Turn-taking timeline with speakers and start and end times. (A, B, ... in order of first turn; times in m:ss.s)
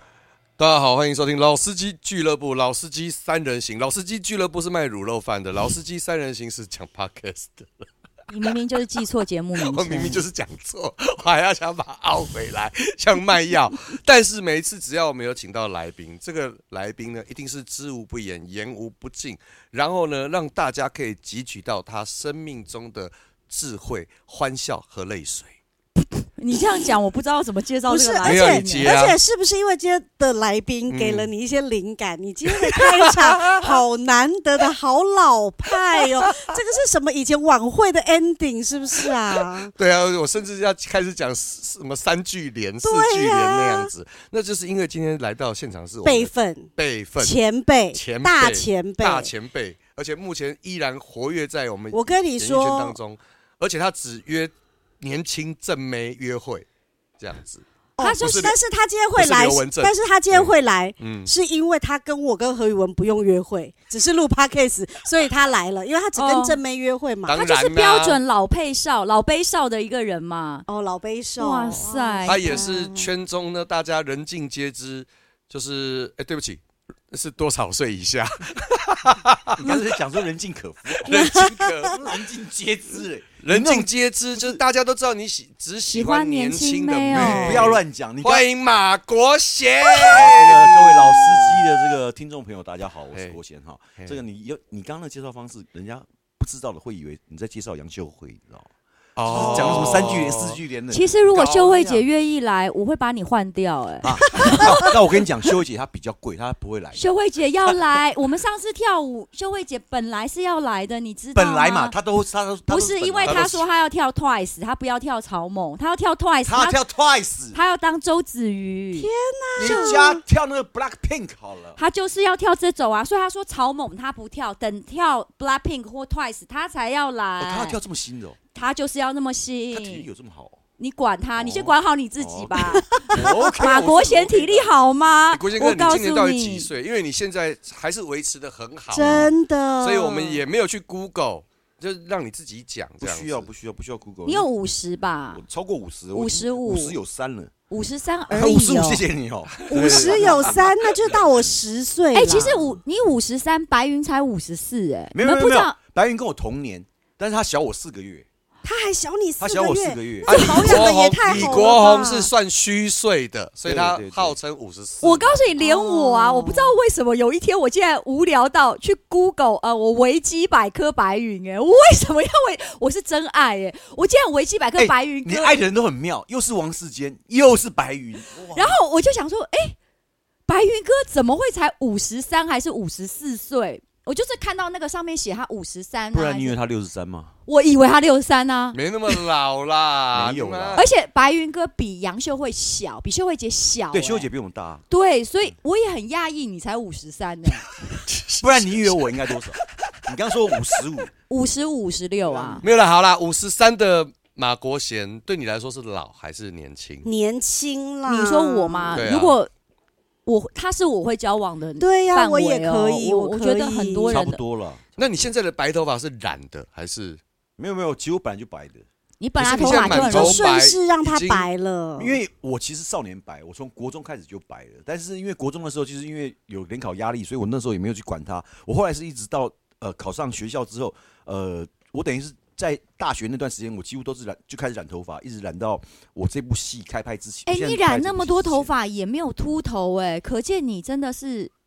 0:00.6-0:07.8 A
0:08.3-0:10.2 B
0:09.5-0:25.6 A
0:26.4-0:29.0 B
0:27.9-0:39.7 C
0:28.2-0:29.2 A
0:30.9-0:31.3 A
0:32.7-0:33.8 A
0:39.8-0:47.4 A
0:42.8-0:43.9 C
0:46.0-0:49.3 C
0:47.9-0:56.6 A
0:51.9-0:53.0 C
0:57.2-0:57.6 A
0:58.0-1:07.4 C
0:58.0-0:58.5 B
0:58.2-0:58.6 A
0:59.1-1:01.3 A
1:06.1-1:06.6 B
1:07.2-1:08.2 A
1:07.3-1:10.6 B
1:10.7-1:13.1 C
1:11.4-1:12.7 B
1:12.2-1:19.8 A
1:19.5-1:24.6 D
1:21.0-1:22.0 A
1:21.0-1:21.9 C
1:23.4-1:31.9 A
1:25.9-1:27.7 B
1:27.1-1:28.5 D
1:30.0-1:38.7 D
1:39.2-1:40.6 A
1:39.2-1:42.0 D
1:40.9-1:44.9 B
1:41.4-1:41.8 A
1:44.0-1:47.0 D
1:44.4-1:44.8 C
1:46.9-1:51.9 B
1:51.3-1:53.6 D
1:52.7-1:56.8 B
1:53.2-1:53.6 A
1:56.4-1:57.6 D
1:57.5-1:59.1 B
1:59.0-2:00.2 C
1:59.6-2:01.8 D
2:01.8-2:07.8 B
2:07.4-2:08.4 D
2:08.5-2:10.0 B
2:09.7-2:10.6 D
2:10.8-2:16.7 B
2:11.4-2:13.9 D
2:13.1-2:14.7 A
2:15.3-2:23.5 A
2:18.9-2:20.4 C
2:23.0-2:24.5 D
2:24.2-2:25.4 B
2:25.3-2:27.5 D
2:26.1-2:27.0 B
2:27.7-2:29.0 B
2:28.3-2:30.7 D
2:29.6-2:31.3 A
2:29.7-2:32.5 C
2:32.1-2:35.8 B
2:35.1-2:38.3 D
2:38.6-2:42.3 C
2:39.4-2:41.7 D
2:40.3-2:45.4 A
2:43.6-2:44.4 D
2:45.0-2:55.6 B
2:45.6-2:46.7 C
2:54.8-2:58.8 D
2:58.5-2:59.8 B
3:00.5-3:06.6 B
3:06.1-3:07.3 D
3:07.5-3:08.8 B
3:08.7-3:10.8 A
3:10.1-3:10.8 D
3:10.7-3:14.3 B
3:13.9-3:14.8 D
3:14.9-3:17.7 B
3:18.0-3:19.1 A
3:18.4-3:21.1 D
3:21.3-3:22.6 B
3:22.3-3:22.7 D
3:22.6-3:27.1 A
3:27.0-3:29.0 C
3:28.0-3:29.5 B
3:28.9-3:29.3 A
3:30.2-3:34.4 B
3:31.8-3:34.2 C
3:34.1-3:34.8 D
3:35.0-3:37.2 A
3:37.6-3:38.8 D
3:39.2-3:40.4 B
3:39.4-3:41.5 A
3:39.6-3:42.2 C
3:42.0-3:58.7 D
3:57.5-4:01.5 B